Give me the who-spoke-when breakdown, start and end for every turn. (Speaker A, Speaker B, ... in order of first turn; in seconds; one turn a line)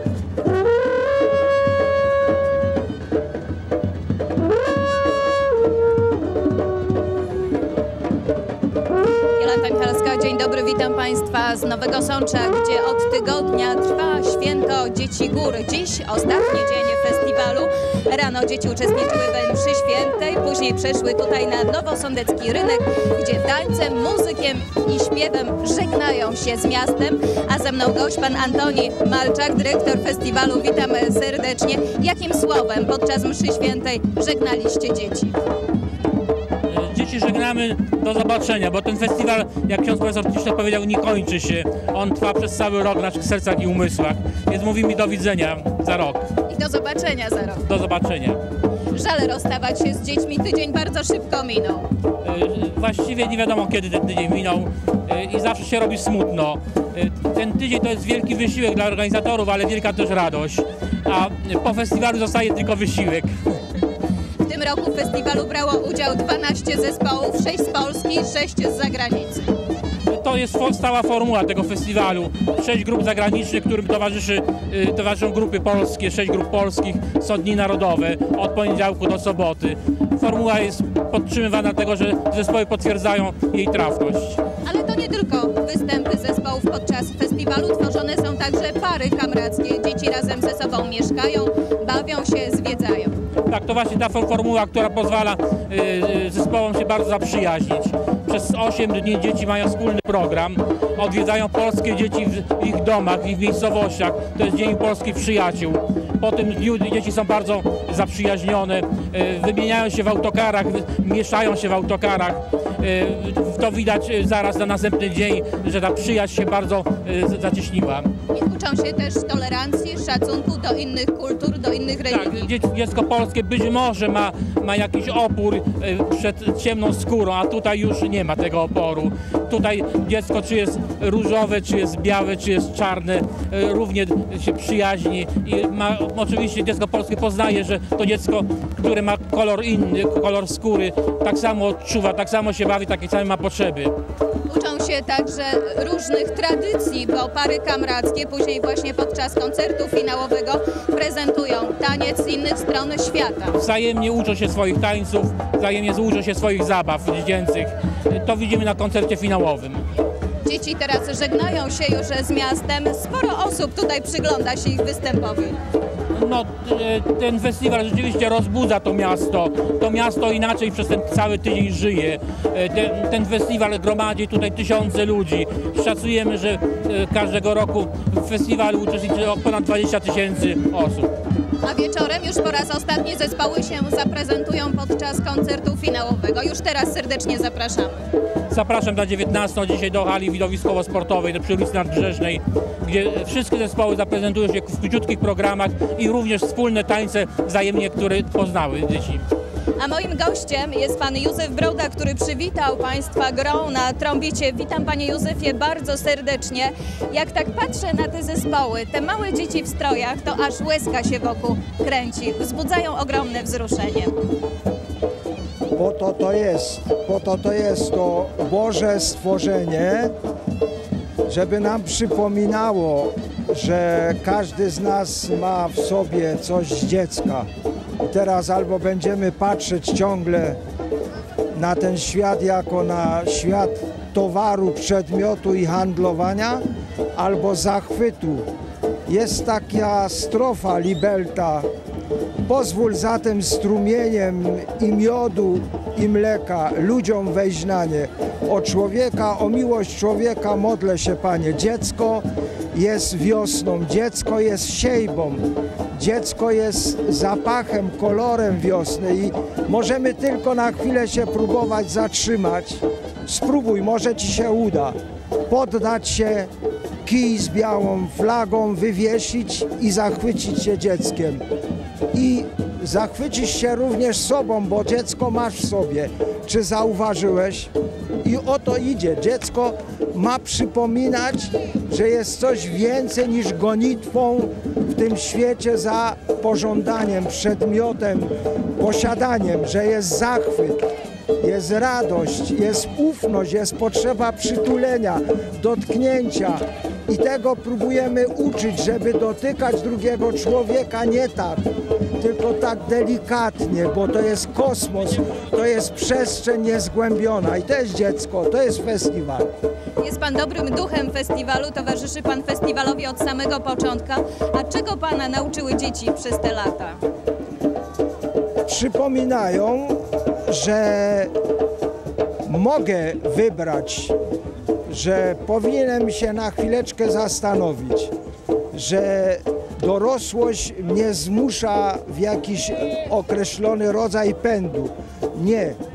Speaker A: 9.3-35.4
Speaker B: 36.7-46.3
Speaker A: 46.4-47.7
Speaker B: 47.6-48.4
Speaker A: 48.9-51.9
Speaker B: 52.2-63.3
Speaker A: 64.4-69.5
Speaker B: 70.1-84.4
Speaker A: 84.6-93.2
Speaker B: 93.5-118.1
Speaker A: 118.3-122.5
Speaker B: 122.1-143.9
Speaker A: 144.5-153.6
Speaker B: 153.5-159.8
Speaker A: 160.4-165.6
Speaker B: 166.1-181.1
Speaker A: 181.6-188.0
Speaker B: 188.5-199.2
Speaker A: 199.8-214.2
Speaker C: 215.7-220.1
Speaker C: 221.2-227.5
Speaker C: 228.0-230.6
Speaker C: 231.5-236.6
Speaker C: 237.2-238.4
Speaker C: 239.1-241.7
Speaker C: 242.4-265.0
Speaker C: 265.5-266.5
Speaker C: 267.0-271.4
Speaker C: 272.1-277.7
Speaker C: 278.2-290.8
Speaker C: 291.4-301.6
Speaker C: 302.2-309.5
Speaker A: 310.0-317.0
Speaker C: 318.6-321.3
Speaker C: 322.4-324.1
Speaker C: 324.9-328.1
Speaker C: 328.7-335.8